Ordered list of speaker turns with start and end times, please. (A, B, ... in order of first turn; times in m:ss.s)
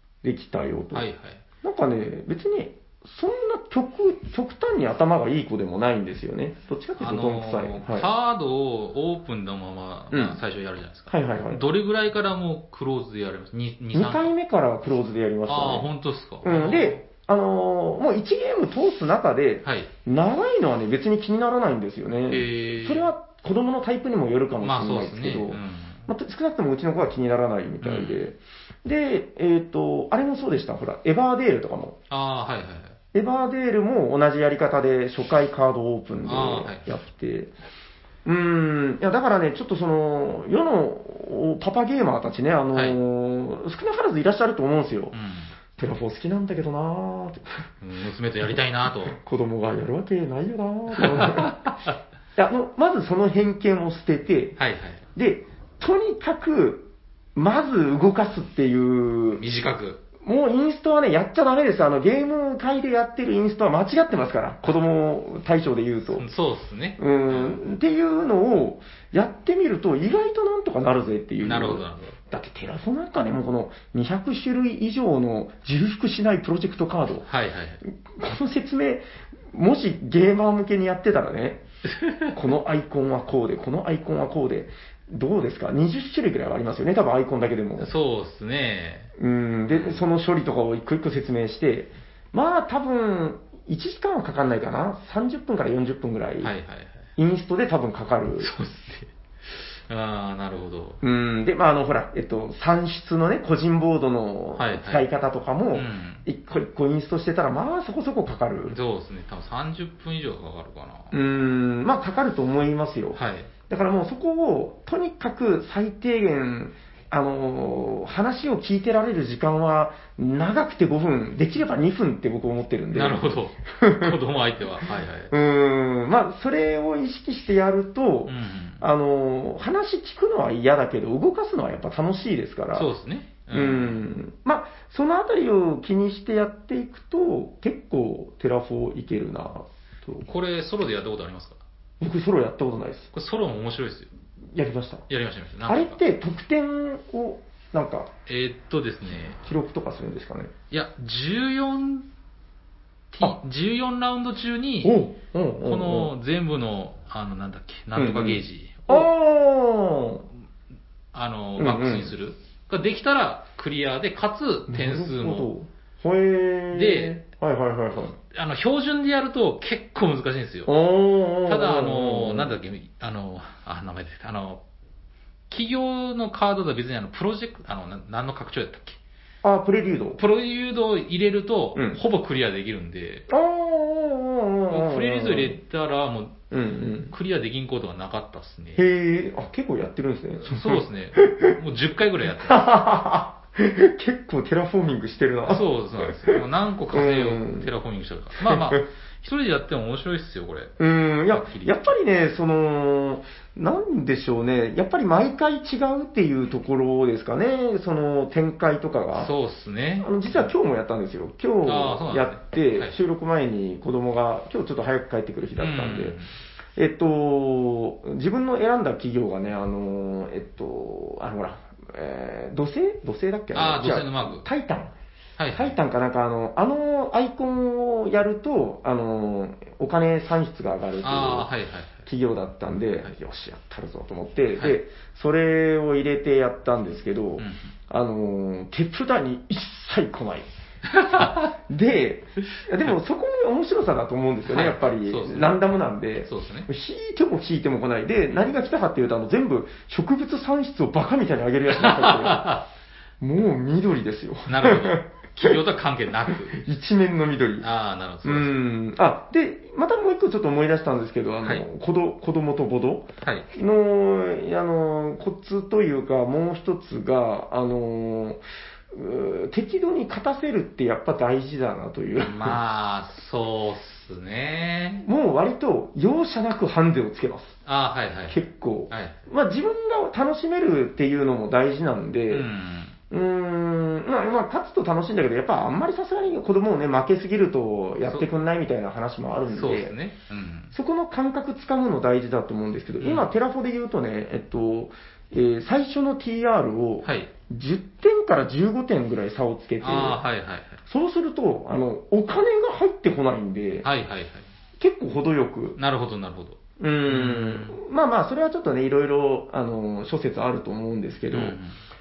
0:00.2-0:01.1 A
0:00.9-0:01.4 B
0:01.6-0:08.1 A
0:07.0-0:14.3 B
0:10.1-0:10.4 A
0:11.1-0:11.6 A
0:13.9-0:15.9 A
0:15.5-0:17.0 B
0:16.4-0:32.0 A
0:19.6-0:19.9 B
0:22.3-0:23.1 B
0:24.6-0:26.1 B
0:27.8-0:28.2 B
0:32.1-0:33.0 B
0:33.1-0:37.5 A
0:36.2-0:36.9 B
0:38.2-0:45.1 A
0:45.1-0:45.5 B
0:45.8-0:47.7 A
0:47.8-0:49.2 B
0:49.1-0:51.7 A
0:50.9-0:52.0 B
0:52.4-0:54.6 A
0:54.6-0:55.1 B
0:55.2-0:59.4 A
0:59.4-1:00.0 B
1:00.2-1:06.3 A
1:06.1-1:07.6 B
1:07.0-1:17.3 A
1:11.4-1:12.2 B
1:17.3-1:17.8 B
1:17.9-1:21.6 A
1:21.9-1:22.4 B
1:22.3-1:27.9 A
1:27.8-1:29.1 B
1:29.2-1:36.5 A
1:29.7-1:30.0 B
1:36.4-1:37.1 B
1:37.2-1:38.5 A
1:38.4-1:41.0 B
1:41.0-1:48.8 A
1:44.6-1:45.0 B
1:45.7-1:46.2 B
1:48.7-1:51.2 B
1:51.1-2:04.2 A
1:53.2-1:53.5 B
2:02.9-2:05.3 B
2:05.3-2:12.9 A
2:08.3-2:08.8 B
2:12.8-2:14.0 B
2:13.5-2:20.3 A
2:20.2-2:21.6 B
2:22.0-2:23.1 A
2:23.1-2:24.1 B
2:24.5-2:25.0 A
2:25.1-2:26.0 B
2:25.7-2:28.1 A
2:28.3-2:29.4 B
2:29.4-2:30.5 A
2:30.7-2:32.1 B
2:33.1-2:35.0 B
2:34.8-2:36.1 A
2:35.6-2:39.1 B
2:38.0-2:40.3 A
2:41.1-2:45.5 B
2:41.6-2:42.1 A
2:44.7-2:48.2 A
2:46.7-2:47.2 B
2:47.9-2:50.7 B
2:50.7-2:52.6 A
2:51.5-2:54.6 B
2:55.5-2:59.0 B
2:59.4-3:00.2 A
3:00.2-3:03.3 B
3:03.3-3:05.6 A
3:04.7-3:06.5 B
3:06.5-3:07.1 A
3:07.1-3:08.8 B
3:08.8-3:11.6 A
3:10.4-3:12.6 B
3:12.3-3:17.7 A
3:15.5-3:20.7 B
3:18.4-3:18.8 A
3:20.8-3:29.3 A
3:21.3-3:21.9 B
3:29.2-3:30.5 B
3:30.0-3:36.2 A
3:31.6-3:32.9 B
3:35.6-3:36.3 B
3:36.8-3:44.9 A
3:43.6-3:44.4 B
3:45.4-3:45.8 B
3:45.6-3:51.5 A
3:51.0-3:52.1 B
3:52.1-4:00.5 A
3:57.4-3:57.7 B
4:00.9-4:01.5 B
4:01.1-4:12.5 A
4:04.5-4:05.6 B
4:06.3-4:06.7 B
4:11.7-4:12.7 B
4:13.2-4:15.6 A
4:14.5-4:16.6 B
4:16.3-4:17.7 A
4:17.6-4:18.6 B
4:18.2-4:32.6 A
4:23.2-4:23.5 B
4:32.2-4:35.1 B
4:35.0-4:37.6 A
4:37.7-4:39.2 B
4:38.3-4:42.5 A
4:42.3-4:43.0 B
4:43.1-4:49.9 A
4:49.5-4:50.7 B
4:50.7-5:00.2 A
4:53.0-4:53.3 B
4:57.0-4:57.3 B
4:59.8-5:00.8 B
5:00.9-5:03.9 A
5:03.8-5:04.5 B
5:04.8-5:05.8 A
5:05.8-5:07.8 B
5:06.8-5:11.6 A
5:11.3-5:11.8 B